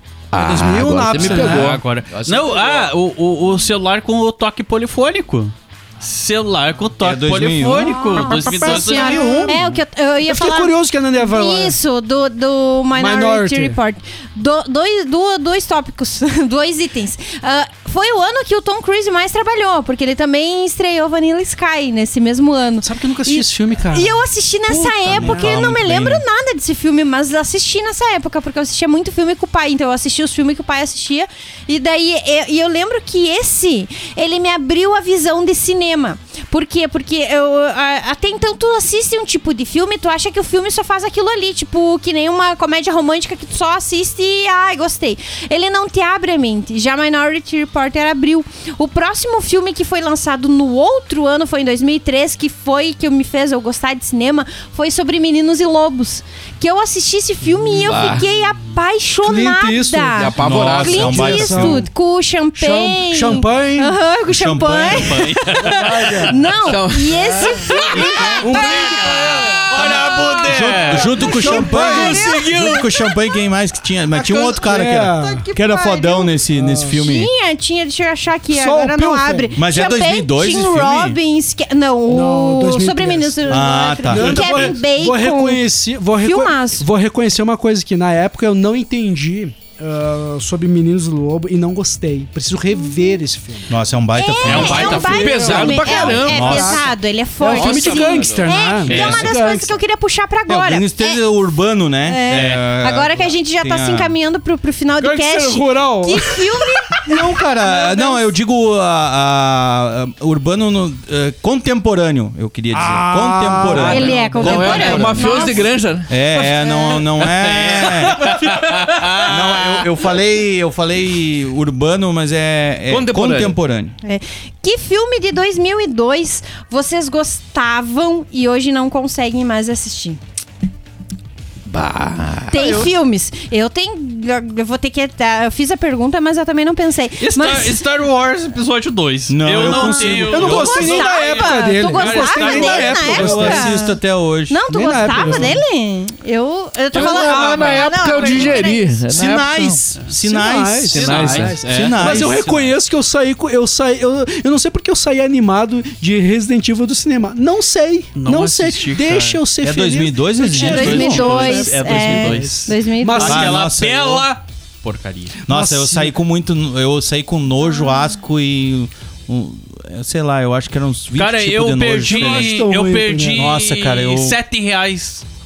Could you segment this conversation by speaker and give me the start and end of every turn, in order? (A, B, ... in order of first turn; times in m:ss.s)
0:00.3-0:02.9 A
0:00.4-0:01.7 B
0:00.5-0:01.5 C
0:01.1-0:09.6 D
0:07.0-0:08.3 C
0:07.8-1:09.4 E
0:08.4-0:09.6 B
0:10.2-0:11.8 B
0:12.9-0:13.8 B
0:22.8-0:25.6 B
0:25.1-0:26.2 C
0:57.8-0:58.2 A
0:59.2-1:01.9 B
1:00.2-1:01.3 A
1:00.4-1:01.8 C
1:02.6-1:03.9 B
1:04.3-1:05.4 C
1:04.8-1:05.9 D
1:05.6-1:06.4 B
1:06.6-1:07.6 A
1:08.0-1:11.2 D
1:08.3-1:09.5 B
1:09.7-1:17.3 C
1:09.8-1:11.1 A
1:11.1-1:12.3 B
1:11.3-1:13.4 E
1:11.7-1:12.8 A
1:14.1-1:15.4 B
1:15.1-1:16.3 E
1:16.5-1:17.0 B
1:16.9-1:25.6 E
1:18.5-1:19.5 B
1:19.6-1:21.2 C
1:22.1-1:33.7 B
1:23.5-1:24.7 C
1:26.2-1:26.8 E
1:32.9-1:33.2 E
1:33.7-1:35.4 C
1:34.1-1:41.2 E
1:34.4-1:36.8 A
1:34.5-1:36.8 B
1:34.5-1:34.8 D
1:36.2-1:36.8 C
1:37.4-1:39.7 B
1:37.5-1:38.6 A
1:38.8-1:39.3 C
1:40.5-1:44.1 C
1:42.0-1:48.3 E
1:42.3-1:42.6 D
1:45.0-1:46.4 B
1:47.0-1:55.4 C
1:52.7-1:55.4 B
1:53.7-1:59.8 A
1:53.8-1:55.7 E
1:56.1-1:58.4 C
1:57.6-1:59.3 D
1:59.2-2:03.9 C
2:02.9-2:03.6 A
2:04.0-2:10.2 E
2:11.6-2:12.9 A
2:12.5-2:17.8 E
2:17.2-2:23.4 D
2:19.3-2:21.1 C
2:19.5-2:23.9 B
2:20.3-2:24.0 E
2:23.0-2:25.5 C
2:24.5-2:29.0 E
2:24.7-2:25.6 B
2:26.9-2:28.6 D
2:26.9-2:29.8 A
2:29.1-2:32.4 C
2:30.1-2:43.6 B
2:30.9-2:31.6 A
2:30.9-2:32.8 D
2:38.2-2:39.4 D
2:39.6-2:41.4 C
2:40.5-2:43.5 E
2:40.6-2:45.4 D
2:43.2-2:44.3 C
2:45.4-2:52.5 C
2:45.5-2:46.2 B
2:51.1-2:55.2 D
2:52.0-2:53.5 B
2:53.4-2:54.4 C